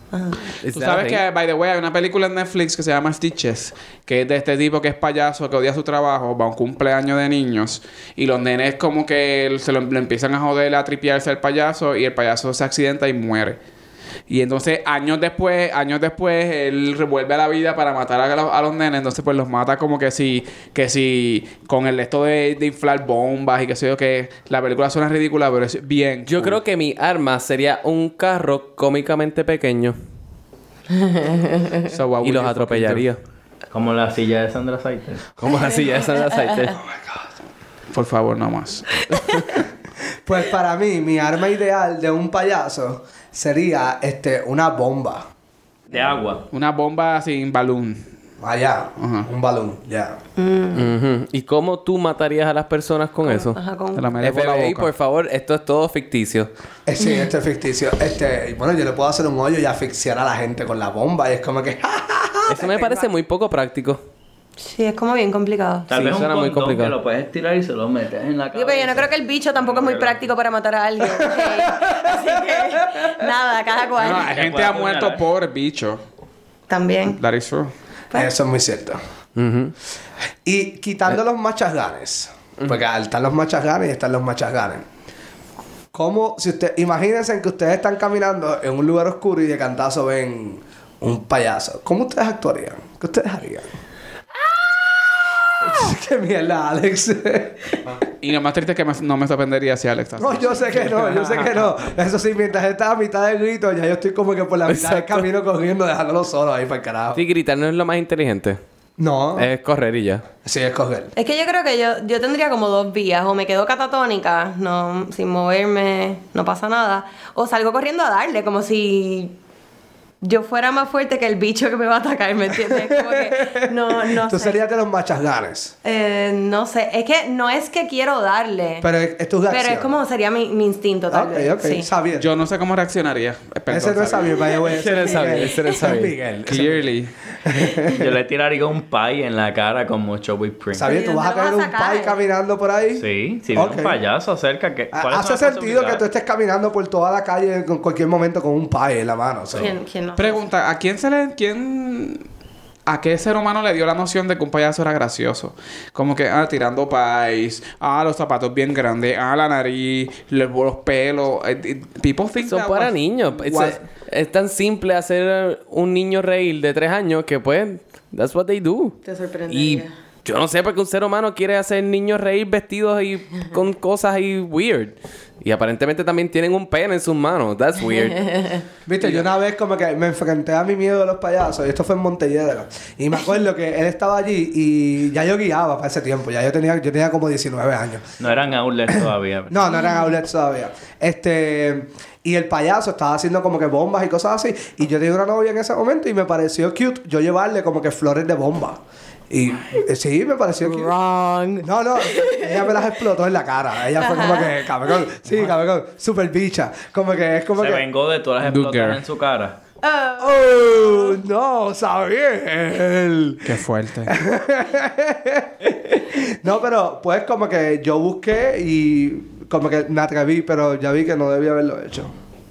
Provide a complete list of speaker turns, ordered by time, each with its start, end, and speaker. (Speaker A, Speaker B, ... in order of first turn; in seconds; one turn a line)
Speaker A: 0.1-0.4
Speaker B: 0.6-1.2
Speaker C: 0.7-13.6
Speaker C: 14.3-26.6
Speaker B: 26.3-29.9
Speaker A: 30.9-31.8
Speaker C: 31.8-33.1
Speaker B: 32.2-33.2
Speaker D: 33.7-35.3
Speaker B: 35.4-36.8
Speaker E: 36.9-37.2
Speaker C: 37.9-39.1
Speaker B: 39.1-39.4
Speaker E: 40.2-45.3
Speaker D: 45.9-46.4
Speaker C: 46.5-48.1
Speaker E: 48.4-50.2
Speaker C: 49.0-49.3
Speaker A: 50.4-50.9
Speaker B: 50.7-53.6
Speaker A: 53.2-54.1
Speaker C: 53.9-54.9
Speaker B: 54.2-56.5
Speaker E: 56.9-63.1
Speaker B: 62.5-64.0
Speaker A: 64.6-65.9
Speaker D: 65.9-70.2
Speaker B: 65.9-66.9
Speaker A: 68.5-74.4
Speaker E: 71.0-73.1
Speaker C: 74.0-76.0
Speaker D: 74.3-75.2
Speaker A: 76.7-77.2
Speaker C: 77.1-77.7
Speaker E: 78.1-79.0
Speaker B: 79.3-79.7
Speaker E: 80.4-84.8
Speaker E: 85.9-93.7
Speaker E: 95.5-97.8
Speaker C: 98.2-101.1
Speaker E: 100.2-107.2
Speaker B: 101.0-101.5
Speaker B: 104.7-105.2
Speaker B: 107.1-108.6
Speaker E: 109.0-109.5
Speaker B: 109.3-110.2
Speaker E: 110.4-111.1
Speaker A: 111.2-119.3
Speaker A: 120.2-124.6
Speaker E: 122.5-125.7
Speaker A: 125.8-128.9
Speaker E: 128.8-129.9
Speaker A: 129.5-131.9
Speaker E: 131.1-132.3
Speaker C: 132.2-134.5
Speaker E: 133.7-136.8
Speaker B: 134.7-136.3
Speaker C: 136.4-137.1
Speaker E: 137.4-138.2
Speaker D: 137.8-140.9
Speaker E: 140.7-144.0
Speaker A: 140.8-142.2
Speaker D: 143.0-146.0
Speaker E: 144.9-149.7
Speaker A: 149.5-150.4
Speaker C: 150.2-152.2
Speaker C: 152.8-163.8
Speaker B: 162.4-169.0
Speaker A: 169.0-169.9
Speaker B: 169.5-179.2
Speaker A: 178.2-178.6
Speaker E: 178.8-188.2
Speaker D: 188.2-189.7
Speaker E: 188.9-200.9
Speaker B: 201.0-201.5
Speaker E: 201.6-207.8
Speaker A: 202.0-202.8
Speaker A: 204.0-204.6
Speaker D: 207.6-209.6
Speaker C: 208.4-209.0
Speaker A: 209.8-211.2
Speaker E: 210.2-222.1
Speaker C: 213.4-214.2